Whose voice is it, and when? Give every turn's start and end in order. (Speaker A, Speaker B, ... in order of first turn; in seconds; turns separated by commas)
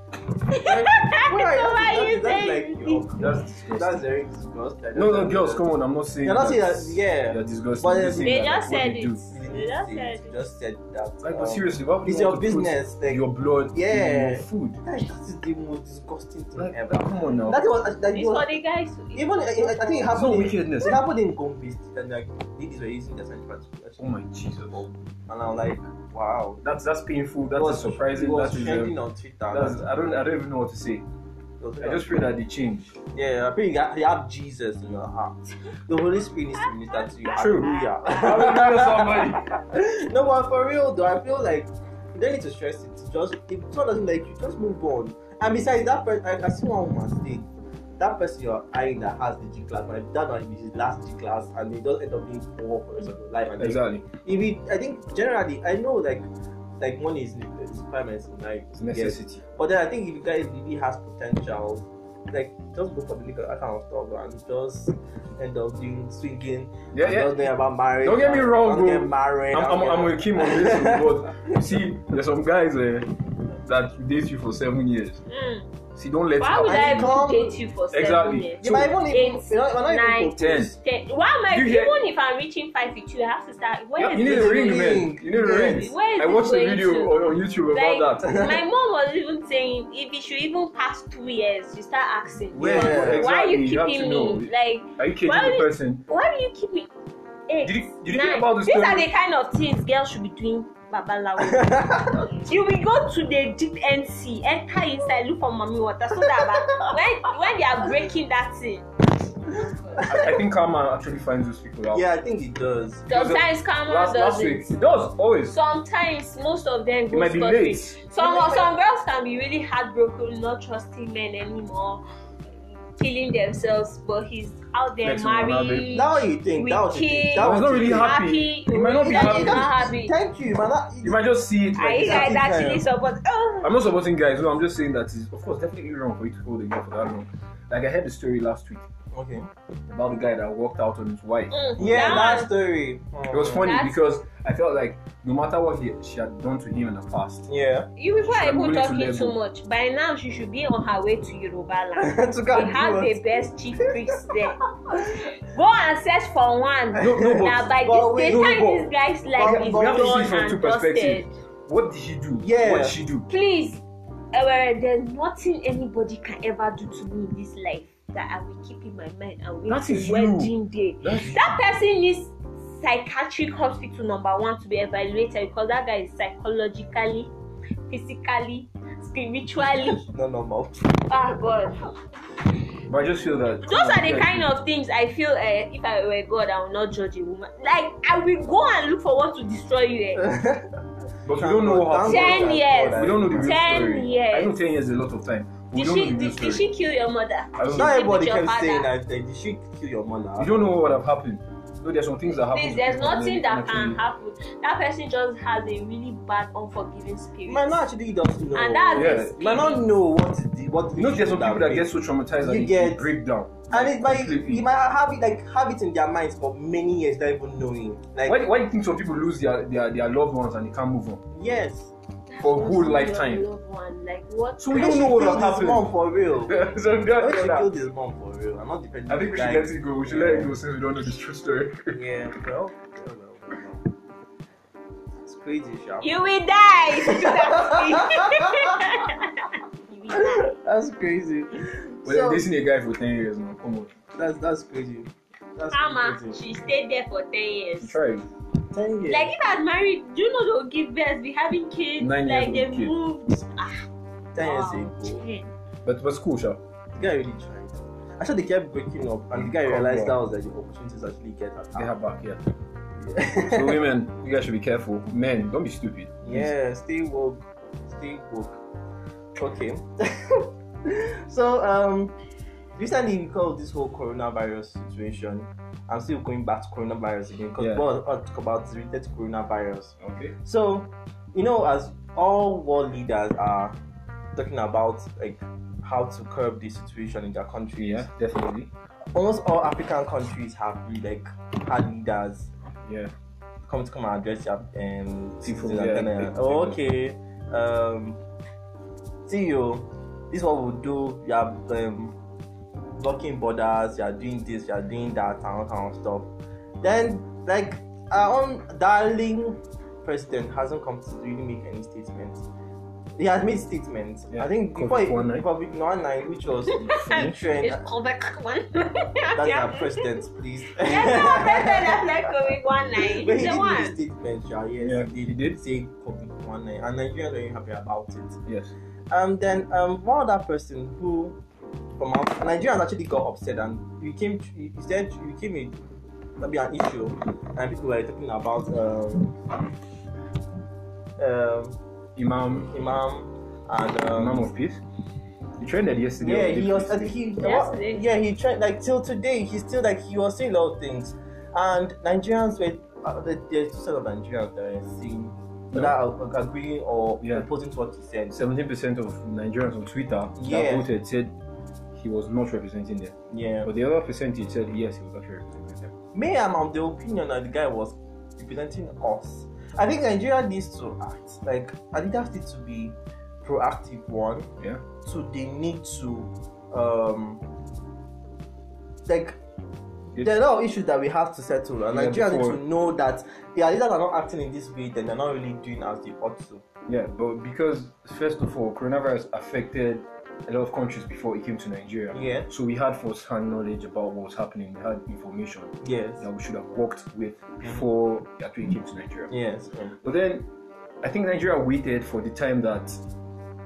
Speaker A: 0.5-3.0, Speaker B: 0.6-5.6, Speaker C: 3.1-4.1, Speaker C: 4.9-9.2, Speaker B: 6.2-8.6, Speaker A: 8.2-10.4, Speaker B: 9.3-18.5, Speaker C: 11.2-14.8, Speaker C: 16.6-17.6, Speaker A: 18.1-20.1, Speaker B: 19.1-26.6, Speaker C: 20.1-21.0, Speaker C: 24.0-24.8, Speaker C: 26.6-28.9, Speaker B: 27.5-29.9, Speaker C: 29.5-31.1, Speaker B: 31.6-32.2, Speaker C: 31.8-33.0, Speaker B: 33.1-47.5, Speaker A: 37.2-38.1, Speaker C: 37.3-39.5, Speaker B: 48.0-56.3, Speaker C: 53.6-54.1, Speaker B: 56.8-71.5, Speaker C: 58.8-59.4, Speaker C: 66.9-67.5, Speaker C: 68.0-75.2, Speaker A: 75.2-75.7, Speaker C: 75.9-77.2, Speaker A: 76.4-85.0, Speaker B: 76.6-77.6, Speaker C: 77.9-78.9, Speaker B: 78.6-80.7, Speaker C: 80.4-80.7, Speaker C: 81.5-82.0, Speaker C: 84.0-88.3, Speaker B: 84.1-85.9, Speaker A: 85.7-87.2, Speaker A: 87.7-96.9, Speaker B: 88.2-88.6, Speaker C: 92.5-96.0, Speaker B: 92.6-93.3, Speaker A: 97.5-108.9, Speaker C: 97.6-99.1, Speaker B: 101.4-102.3, Speaker B: 106.4-106.8, Speaker A: 109.4-110.1, Speaker B: 109.5-110.4, Speaker C: 110.1-112.1, Speaker B: 111.9-113.1, Speaker A: 113.1-114.7, Speaker C: 113.1-115.5, Speaker A: 115.5-122.0, Speaker C: 117.1-118.0, Speaker B: 118.2-118.7, Speaker A: 123.0-130.1, Speaker C: 125.0-125.9, Speaker B: 125.9-128.2, Speaker C: 127.3-129.7, Speaker B: 129.0-131.2, Speaker C: 131.0-132.3, Speaker A: 131.8-133.7, Speaker B: 132.0-132.8, Speaker C: 133.6-138.9, Speaker B: 139.1-139.5, Speaker C: 139.9-141.9, Speaker A: 141.5-142.5, Speaker B: 141.8-143.7, Speaker C: 143.3-147.5, Speaker A: 143.6-143.9, Speaker B: 147.5-147.9, Speaker A: 147.9-161.4, Speaker C: 148.2-149.4, Speaker B: 152.0-153.4, Speaker B: 154.2-155.2, Speaker C: 157.0-157.7, Speaker B: 157.0-158.7, Speaker C: 158.2-163.3, Speaker B: 159.3-160.3, Speaker B: 162.4-163.0, Speaker A: 163.3-177.3, Speaker C: 169.7-171.6, Speaker A: 177.9-180.0, Speaker B: 179.8-181.0, Speaker A: 181.1-181.9, Speaker C: 182.9-184.5, Speaker A: 183.6-190.3, Speaker B: 190.2-190.7, Speaker C: 191.2-196.7, Speaker B: 191.3-193.8, Speaker A: 192.0-194.6, Speaker A: 195.7-198.9, Speaker C: 197.6-198.0, Speaker B: 197.7-200.7, Speaker C: 200.4-204.0, Speaker A: 202.5-207.8, Speaker B: 207.5-213.1, Speaker A: 208.5-209.8, Speaker C: 208.9-209.7, Speaker C: 210.9-214.6, Speaker B: 213.7-218.4, Speaker C: 218.2-221.2, Speaker B: 221.3-221.9, Speaker A: 222.3-225.0, Speaker C: 222.4-223.4, Speaker C: 224.6-225.9, Speaker B: 224.7-230.6, Speaker C: 226.5-227.7, Speaker C: 229.1-232.0, Speaker B: 231.9-233.9, Speaker B: 235.2-236.2, Speaker A: 236.0-240.5, Speaker B: 237.0-238.8, Speaker B: 240.1-242.4, Speaker C: 242.0-243.9, Speaker B: 244.2-246.4, Speaker A: 245.7-247.9, Speaker C: 247.8-248.2, Speaker B: 248.7-249.3, Speaker A: 249.1-253.8, Speaker C: 252.0-252.9, Speaker B: 254.3-255.2, Speaker A: 254.4-255.5, Speaker C: 255.8-256.6, Speaker B: 256.9-261.9, Speaker C: 259.3-260.2, Speaker C: 261.7-262.4, Speaker B: 263.0-263.8, Speaker C: 263.4-266.5, Speaker B: 266.2-268.6, Speaker B: 269.3-272.1, Speaker B: 272.7-283.8, Speaker C: 277.6-277.8, Speaker C: 280.0-280.3, Speaker B: 284.3-288.1, Speaker C: 287.8-288.7, Speaker B: 289.1-292.5, Speaker C: 292.8-293.1, Speaker B: 293.7-298.2, Speaker C: 295.4-296.8, Speaker B: 299.2-302.1, Speaker B: 302.9-306.3, Speaker B: 306.8-312.4, Speaker B: 313.2-317.9, Speaker C: 314.3-315.5, Speaker A: 316.7-320.2, Speaker C: 316.9-317.4, Speaker B: 319.3-328.4, Speaker A: 320.7-323.9, Speaker C: 324.8-325.6, Speaker C: 328.5-328.7, Speaker B: 329.1-331.4, Speaker B: 332.0-335.8, Speaker B: 336.4-339.4, Speaker B: 341.2-341.8, Speaker C: 342.1-342.9, Speaker B: 342.6-344.5, Speaker C: 344.1-344.8, Speaker C: 345.6-347.1, Speaker B: 346.2-358.3, Speaker A: 347.4-348.0, Speaker C: 358.3-361.3, Speaker B: 360.4-360.9, Speaker C: 361.9-365.9, Speaker B: 363.3-363.7, Speaker B: 366.1-374.5, Speaker B: 375.0-377.4, Speaker B: 379.1-379.4, Speaker B: 380.1-386.6, Speaker C: 381.9-382.6, Speaker C: 386.9-399.3, Speaker B: 392.1-392.5, Speaker B: 395.8-396.2, Speaker B: 399.3-400.0, Speaker C: 400.0-400.5, Speaker C: 401.0-403.0